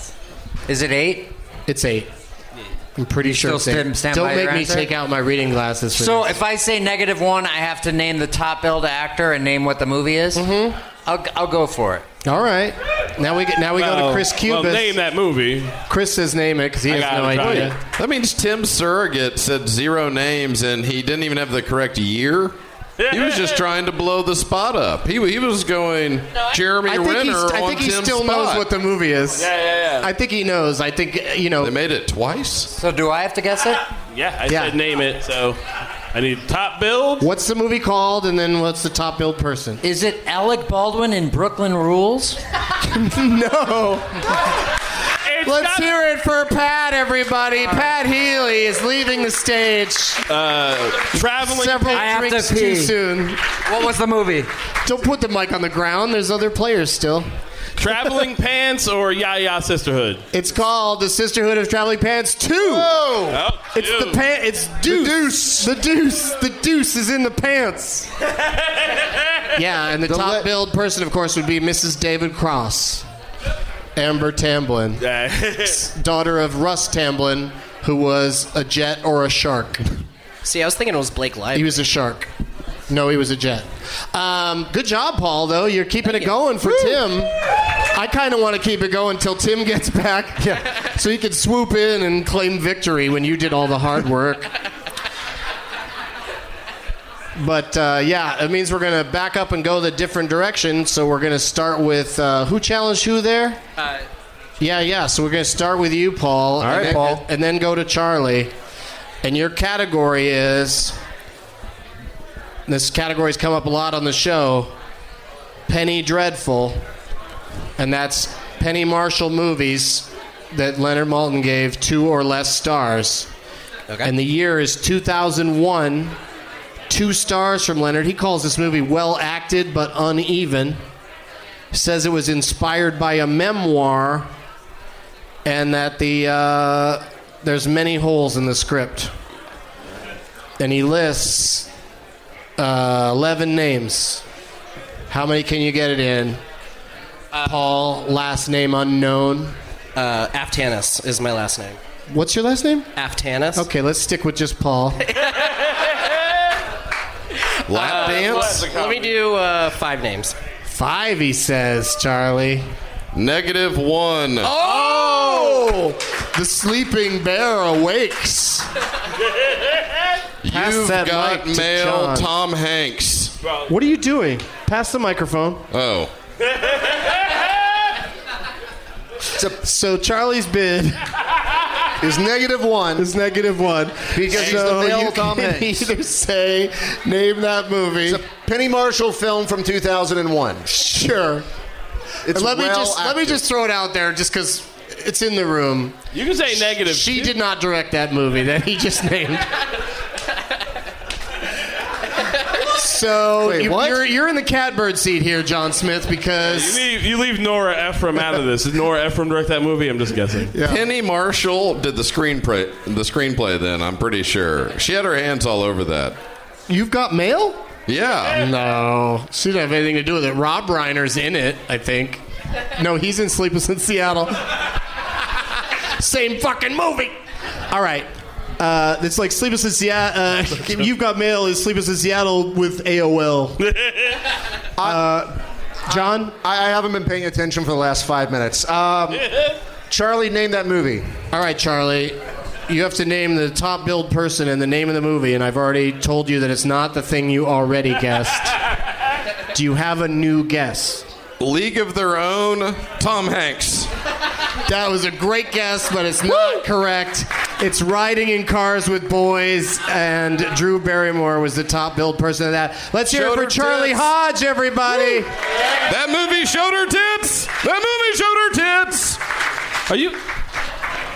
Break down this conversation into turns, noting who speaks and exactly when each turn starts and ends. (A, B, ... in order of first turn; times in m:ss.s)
0:00.7-0:01.3 A
0:01.7-0:02.1 B
0:03.0-0:06.3 B
0:03.2-0:04.9 A
0:06.0-0:10.5 A
0:10.3-0:10.8 B
0:11.1-0:12.0 A
0:12.2-0:15.0 B
0:13.8-0:15.8 C
0:15.9-0:17.8 B
0:16.9-0:17.7 C
0:17.9-0:22.6 D
0:23.0-0:23.6 C
0:23.1-0:28.7 D
0:26.8-0:29.5 B
0:29.4-0:30.1 C
0:30.0-0:31.8 B
0:31.6-0:32.7 D
0:32.7-0:33.8 A
0:34.1-0:35.6 C
0:34.5-0:34.8 B
0:36.1-0:37.3 C
0:37.2-0:39.8 B
0:39.8-0:42.4 A
0:42.9-0:44.2 B
0:45.3-0:45.9 C
0:45.4-0:50.2 B
0:50.3-0:52.1 C
0:51.3-0:53.4 B
0:51.9-0:52.9 A
0:53.6-0:54.5 A
0:54.8-0:57.3 B
0:57.8-1:00.2 C
1:00.3-1:02.9 B
1:02.6-1:03.4 E
1:03.3-1:04.2 C
1:03.7-1:08.1 B
1:04.8-1:05.7 E
1:09.6-1:13.0 B
1:10.1-1:10.5 E
1:14.0-1:15.0 B
1:15.0-1:15.8 C
1:15.6-1:19.8 B
1:20.4-1:21.8 F
1:21.6-1:22.3 B
1:22.9-1:27.3 B
1:26.6-1:27.0 E
1:27.9-1:34.5 B
1:37.4-1:43.6 B
1:43.8-1:44.0 F
1:44.6-1:48.5 B
1:46.6-1:47.2 E
1:49.2-1:51.0 B
1:52.7-1:54.7 B
1:55.7-1:56.8 B
1:57.8-2:03.3 B
2:04.0-2:06.2 B
2:06.9-2:10.8 B
2:11.7-2:14.3 B
2:15.4-2:19.1 B
2:20.6-2:21.7 B
2:22.6-2:24.2 B
2:25.1-2:26.4 B
2:27.3-2:27.6 F
2:27.5-2:29.5 B
2:30.0-2:31.8 F
2:32.1-2:32.9 B
2:33.0-2:33.6 F
2:33.6-2:35.0 B
2:37.7-2:38.4 D
2:37.7-2:40.4 F
2:37.9-2:38.6 B
2:38.2-2:38.6 C
2:38.2-2:38.5 E
2:40.7-2:42.7 B
2:43.1-2:44.5 D
2:44.6-2:45.9 E
2:44.6-2:48.7 B
2:50.4-2:53.3 D
2:50.5-2:52.3 B
2:53.7-2:55.6 B
2:55.7-2:56.1 D
2:59.6-3:01.0 B
3:02.0-3:03.1 E
3:03.0-3:08.2 B
3:04.1-3:05.9 E
3:08.1-3:10.7 E
3:10.7-3:11.4 B
3:12.3-3:13.4 E
3:12.3-3:16.0 B
3:16.1-3:17.3 C
3:16.5-3:19.5 B
3:22.8-3:26.8 B
3:23.4-3:24.1 E
3:26.4-3:30.6 C
3:30.5-3:30.8 E
3:30.6-3:36.2 D
3:36.7-3:37.6 B
3:37.9-3:38.5 D
3:38.3-3:42.2 B
3:42.8-3:44.6 B
3:46.0-3:47.2 B
3:47.7-3:53.6 B
3:53.6-3:54.2 C
3:54.8-3:55.1 E
3:54.8-3:55.3 B
3:55.9-3:56.4 B
3:55.9-3:59.3 E
3:59.9-4:01.1 E
4:01.3-4:02.2 B
4:02.7-4:08.6 B
4:09.5-4:11.1 B
4:11.4-4:13.9 D
4:14.7-4:25.3 B
4:23.1-4:24.1 D
4:24.9-4:25.2 D
4:25.9-4:29.2 D
4:29.9-4:30.2 C